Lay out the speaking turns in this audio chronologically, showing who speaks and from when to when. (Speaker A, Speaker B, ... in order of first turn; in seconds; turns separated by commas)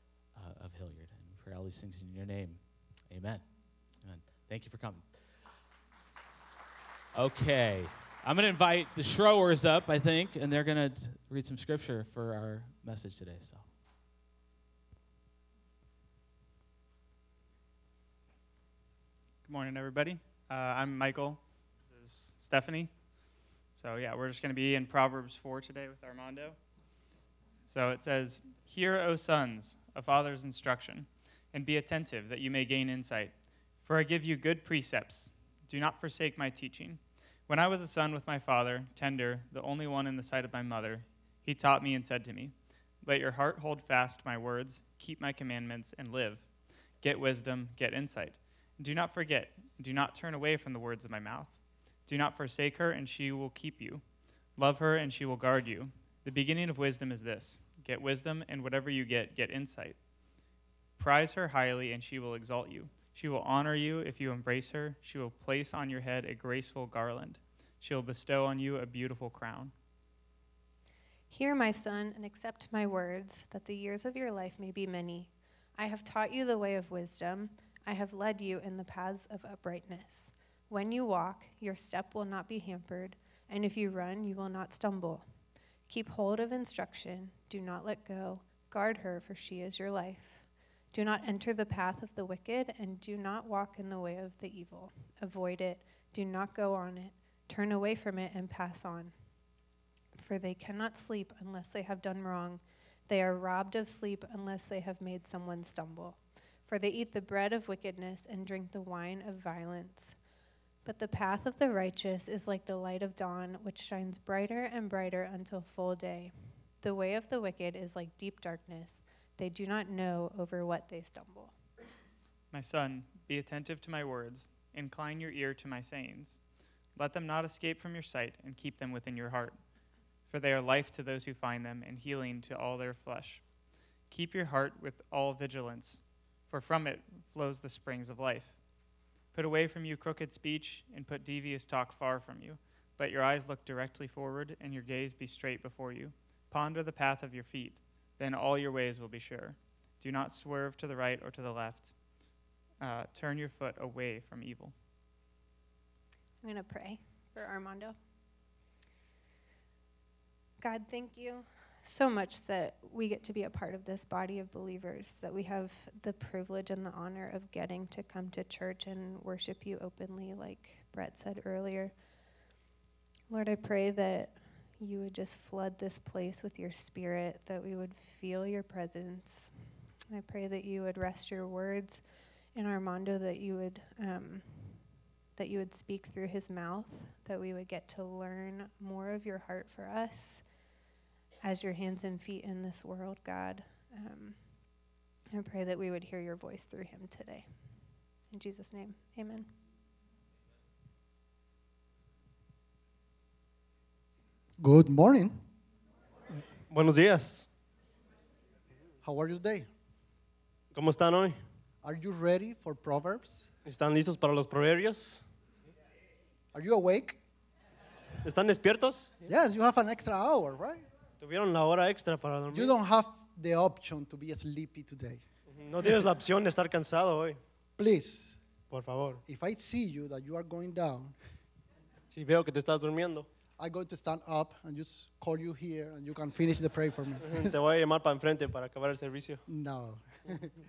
Speaker A: 0.3-3.4, Speaker A: 4.0-5.0, Speaker A: 7.2-13.7, Speaker B: 19.4-22.9, Speaker B: 23.8-26.6, Speaker B: 27.7-33.3, Speaker B: 33.8-46.4, Speaker B: 47.0-54.0, Speaker B: 54.6-60.0, Speaker B: 61.0-69.7, Speaker C: 71.3-85.2, Speaker C: 85.9-99.1, Speaker C: 100.2-110.2, Speaker C: 110.8-121.5, Speaker B: 122.5-126.4, Speaker B: 127.0-129.6, Speaker B: 130.3-133.4, Speaker B: 134.1-138.5, Speaker B: 139.3-151.9, Speaker B: 152.8-154.7, Speaker C: 156.4-158.0, Speaker C: 160.6-171.9, Speaker C: 173.3-179.5, Speaker C: 180.1-182.0, Speaker C: 182.6-184.8, Speaker C: 185.4-190.4, Speaker C: 191.4-194.4, Speaker C: 195.3-197.5, Speaker C: 198.3-199.5, Speaker D: 204.6-205.4, Speaker E: 206.7-207.5, Speaker D: 209.0-209.7, Speaker E: 210.7-211.4, Speaker D: 211.8-213.4, Speaker E: 213.7-215.2, Speaker D: 216.5-217.2, Speaker E: 218.2-219.2, Speaker D: 219.3-220.8, Speaker E: 221.2-222.8, Speaker D: 222.5-225.2, Speaker E: 225.5-227.4, Speaker D: 227.8-228.4, Speaker E: 228.7-229.2, Speaker D: 229.3-231.1, Speaker E: 232.1-233.3, Speaker D: 233.6-237.5, Speaker E: 237.2-239.4, Speaker D: 239.5-240.5